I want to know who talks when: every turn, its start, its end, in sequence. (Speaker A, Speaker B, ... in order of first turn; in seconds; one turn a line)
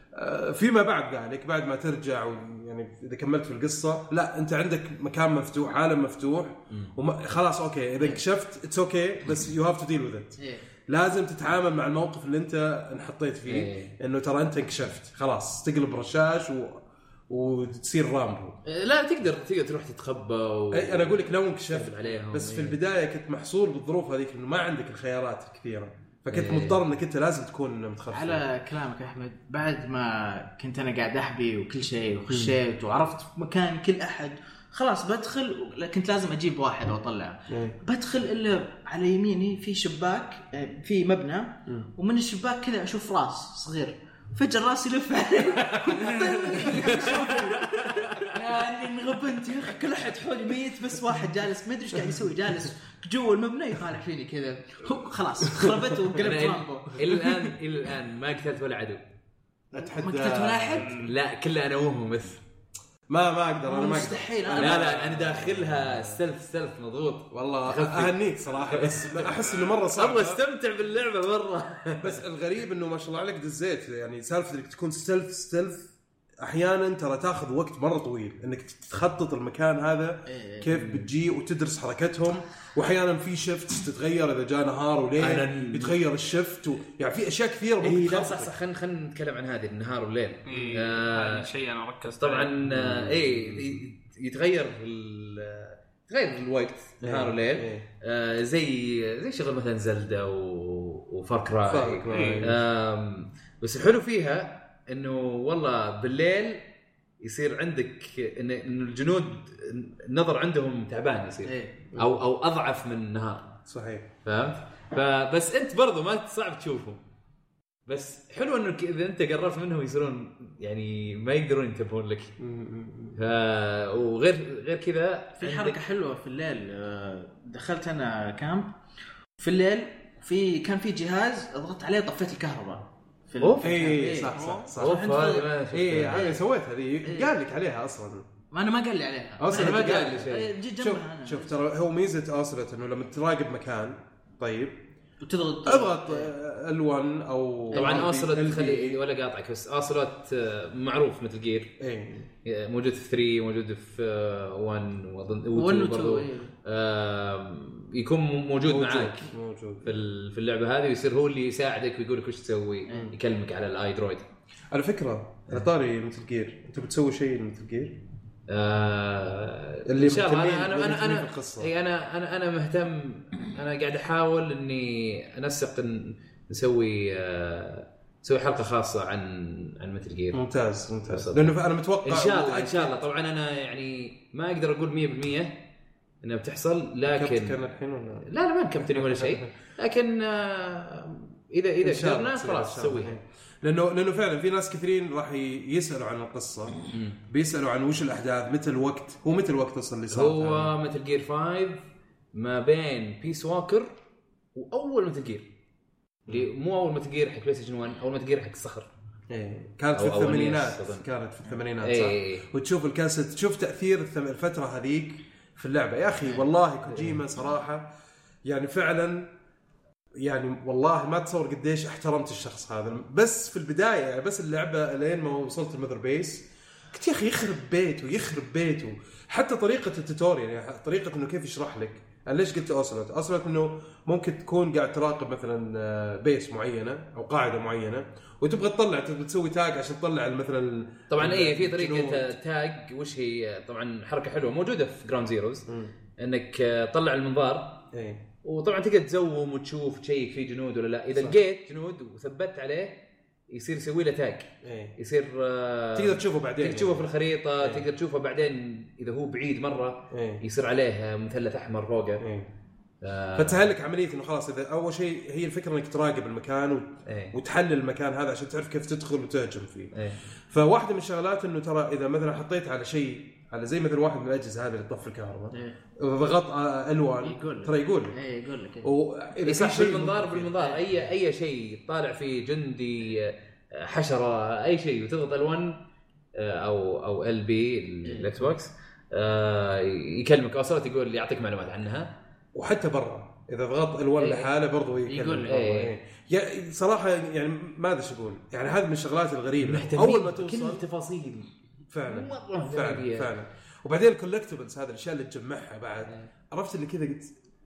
Speaker A: 0.1-18.6
Speaker B: 10.4-10.6
Speaker C: 13.5-13.9
Speaker C: 18.6-22.8
Speaker A: 20.7-28.4
Speaker C: 26.3-26.8
Speaker B: 28.1-57.0
Speaker A: 32.3-32.5
Speaker A: 37.5-37.8
Speaker A: 45.9-46.3
Speaker C: 46.7-48.3
Speaker C: 56.2-59.0
Speaker A: 59.7-60.9
Speaker B: 59.8-61.0
Speaker D: 60.8-61.1
Speaker C: 60.9-62.4
Speaker A: 63.1-66.2
Speaker B: 63.6-65.0
Speaker C: 64.5-72.2
Speaker A: 67.3-70.4
Speaker D: 69.3-69.7
Speaker A: 72.0-88.5
Speaker B: 80.3-80.8
Speaker D: 85.3-85.9
Speaker C: 87.8-91.5
Speaker D: 90.5-92.5
Speaker C: 92.2-106.6
Speaker A: 92.6-93.8
Speaker A: 97.0-97.8
Speaker A: 101.7-102.6
Speaker D: 102.1-102.5
Speaker C: 107.2-113.5
Speaker B: 111.4-111.8
Speaker A: 113.7-114.1
Speaker C: 114.2-117.0
Speaker C: 117.9-122.3
Speaker A: 122.4-123.2
Speaker C: 123.2-125.8
Speaker B: 125.4-128.7
Speaker B: 129.4-135.5
Speaker C: 133.4-133.7
Speaker A: 133.6-138.3
Speaker D: 134.3-134.6
Speaker C: 134.8-136.3
Speaker B: 136.1-136.4
Speaker B: 137.0-137.3
Speaker B: 138.5-141.5
Speaker A: 139.4-144.8
Speaker C: 139.5-140.5
Speaker B: 145.2-146.3
Speaker A: 145.6-149.0
Speaker B: 147.7-148.1
Speaker C: 147.7-151.7
Speaker A: 151.8-152.3
Speaker C: 152.4-159.3
Speaker B: 155.5-156.5
Speaker A: 158.6-160.0
Speaker C: 159.8-164.3
Speaker B: 162.9-163.1
Speaker A: 164.7-168.0
Speaker C: 168.5-180.4
Speaker A: 169.8-171.7
Speaker A: 180.3-183.0
Speaker C: 181.1-185.6
Speaker C: 186.2-187.6
Speaker A: 187.1-188.3
Speaker C: 188.2-193.2
Speaker A: 188.8-189.5
Speaker A: 191.8-200.7
Speaker C: 196.9-197.2
Speaker C: 200.1-203.9
Speaker C: 204.5-205.5
Speaker C: 206.3-208.9
Speaker A: 209.3-217.9
Speaker C: 209.9-211.0
Speaker C: 211.8-212.4
Speaker C: 216.9-217.2
Speaker A: 218.4-219.3
Speaker A: 220.2-242.3
Speaker C: 241.1-245.7
Speaker A: 245.7-245.9
Speaker C: 246.2-247.8
Speaker A: 247.9-248.2
Speaker C: 248.4-252.9
Speaker A: 251.1-251.4
Speaker C: 253.5-262.2
Speaker A: 254.6-254.9
Speaker A: 255.9-257.1
Speaker A: 257.6-257.8
Speaker A: 260.1-260.4
Speaker A: 262.2-262.5
Speaker C: 263.0-263.6
Speaker A: 263.4-269.9
Speaker C: 267.1-267.3
Speaker C: 269.9-270.2
Speaker A: 270.5-278.1
Speaker B: 275.5-275.8
Speaker B: 277.2-278.9
Speaker A: 278.8-280.7
Speaker C: 279.4-285.8
Speaker C: 286.3-292.1
Speaker B: 288.0-288.5
Speaker A: 292.5-300.8
Speaker C: 294.2-294.5
Speaker B: 295.1-295.6
Speaker C: 295.4-295.9
Speaker C: 299.6-301.5
Speaker A: 301.9-307.3
Speaker C: 302.1-303.3